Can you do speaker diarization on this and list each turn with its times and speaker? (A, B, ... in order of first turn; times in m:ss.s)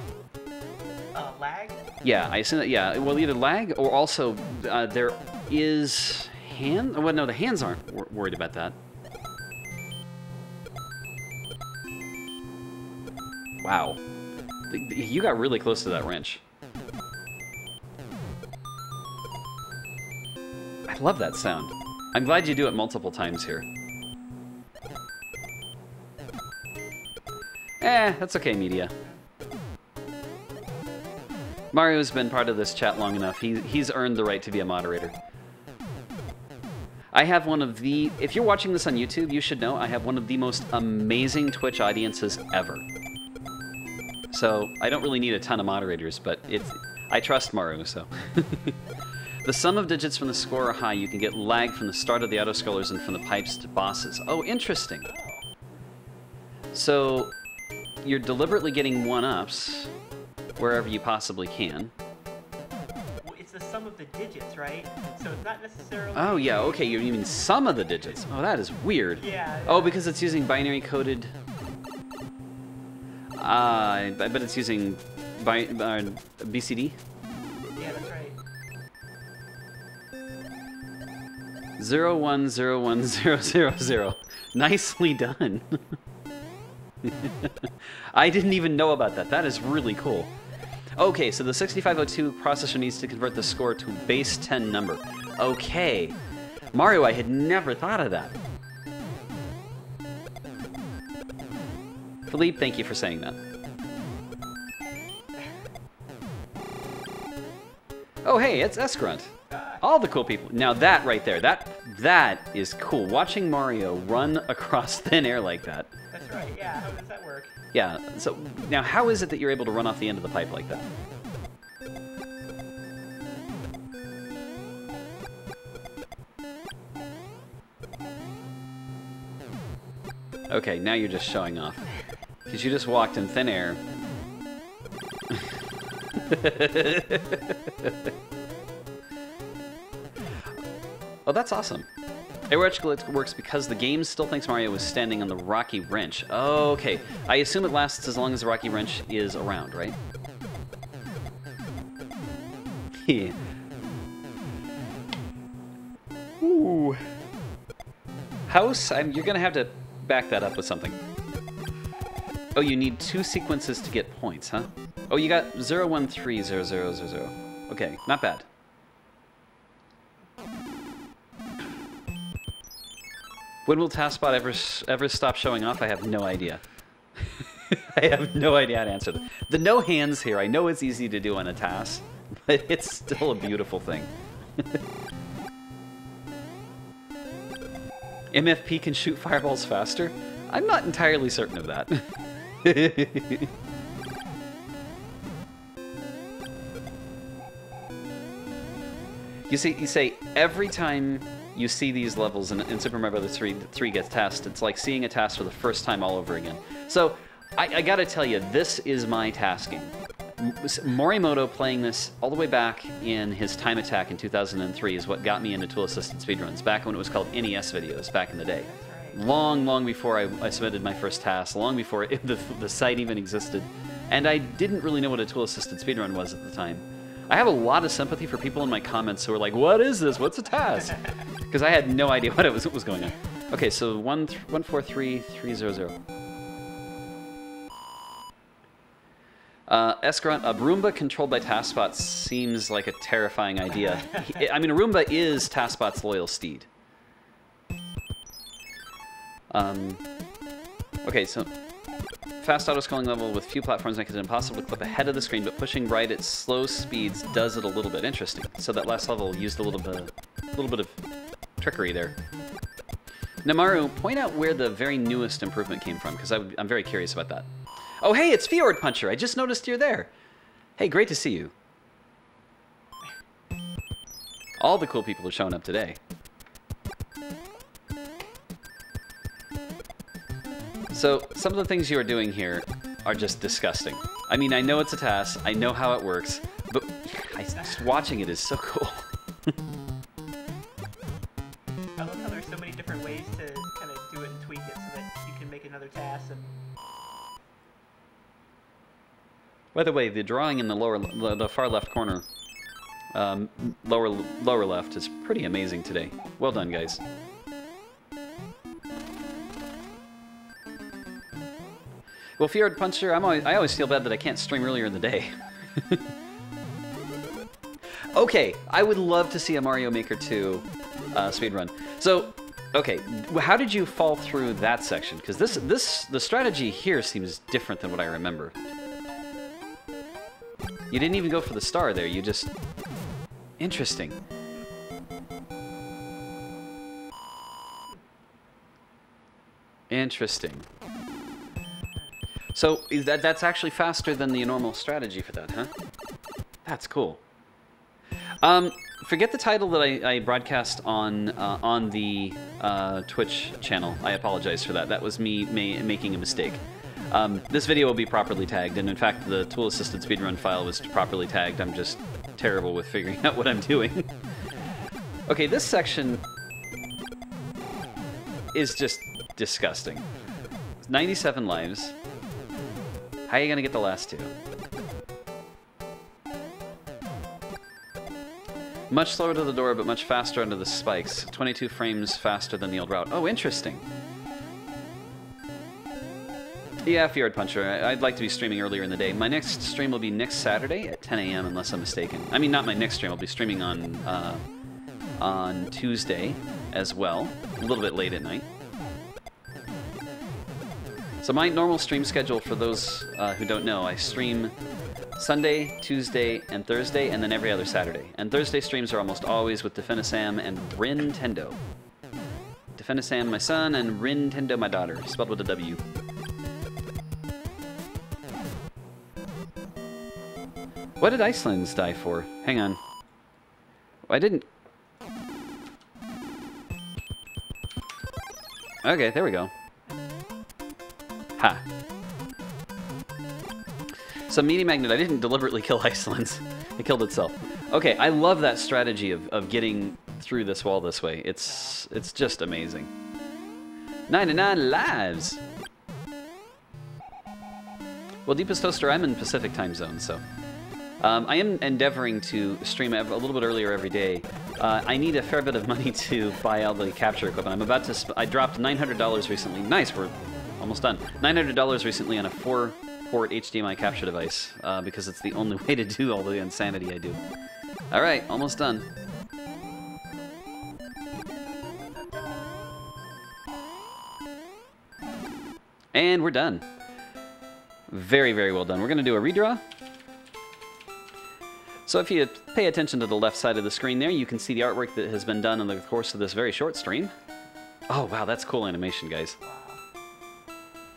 0:01.2-0:01.9 A
0:02.0-0:08.8 B
0:13.6-0:14.0 B
0:14.7-0:16.4 B
0:20.9-0:23.7 B
0:27.8-0:28.9 B
0:31.7-0:35.2 B
0:37.1-0:42.8 B
0:44.3-0:48.7 B
0:49.4-0:55.1 B
0:55.0-0:55.5 A
0:56.7-0:57.3 B
0:58.0-0:59.9 B
1:00.6-1:01.9 B
1:03.2-1:06.8 A
1:06.2-1:11.3 B
1:09.2-1:10.0 A
1:13.4-1:17.0 B
1:17.8-1:18.4 A
1:21.8-1:25.8 B
1:27.0-1:30.3 B
1:31.0-1:36.2 B
1:36.7-1:38.4 B
1:42.3-1:43.4 B
1:48.2-1:55.9 B
1:49.5-1:49.8 A
1:56.1-1:57.6 A
1:57.7-2:00.9 B
2:10.5-2:11.9 B
2:12.5-2:13.8 B
2:16.1-2:18.0 B
2:21.3-2:21.9 B
2:22.5-2:30.0 B
2:33.0-2:33.4 B
2:36.4-2:37.0 B
2:38.5-2:41.0 B
2:42.5-2:48.5 B
2:53.7-2:56.6 B
2:57.2-3:04.8 B
3:08.3-3:12.0 B
3:12.6-3:13.5 B
3:19.5-3:56.0 B
3:38.7-3:39.2 A
3:59.7-4:06.7 B
4:09.5-4:10.0 B
4:11.0-4:11.5 B
4:12.4-4:21.0 B
4:21.6-4:22.2 B
4:23.4-4:27.5 B
4:28.0-4:30.1 B
4:30.8-4:31.5 B
4:34.6-4:36.0 B
4:40.9-4:49.5 B
4:52.0-4:56.6 A
4:59.7-5:02.2 B
5:03.1-5:07.0 B
5:12.4-5:16.0 B
5:18.1-5:28.5 B
5:30.9-5:32.5 B
5:33.6-5:34.2 B
5:39.9-5:40.7 B
5:41.7-5:42.0 A
5:42.5-5:45.7 B
5:46.6-5:47.2 B
5:48.4-6:04.1 B
6:05.3-6:06.2 B
6:08.5-6:10.0 B
6:10.8-6:11.9 B
6:13.3-6:14.3 B
6:18.9-6:23.8 B
6:26.9-6:34.4 B
6:35.2-6:38.5 B
6:41.2-6:44.5 B
6:45.2-6:51.6 B
6:52.8-6:55.8 B
7:01.0-7:02.8 B
7:04.1-7:04.4 B
7:08.8-7:09.5 B
7:11.4-7:11.6 B
7:14.3-7:22.9 B
7:24.1-7:25.4 B
7:28.2-7:30.2 B
7:31.0-7:47.2 B
7:47.9-7:48.9 B
7:52.0-7:52.4 A
7:55.9-7:56.6 B
7:57.9-7:59.6 B
8:01.9-8:07.1 B
8:07.9-8:09.4 B
8:09.4-8:09.8 A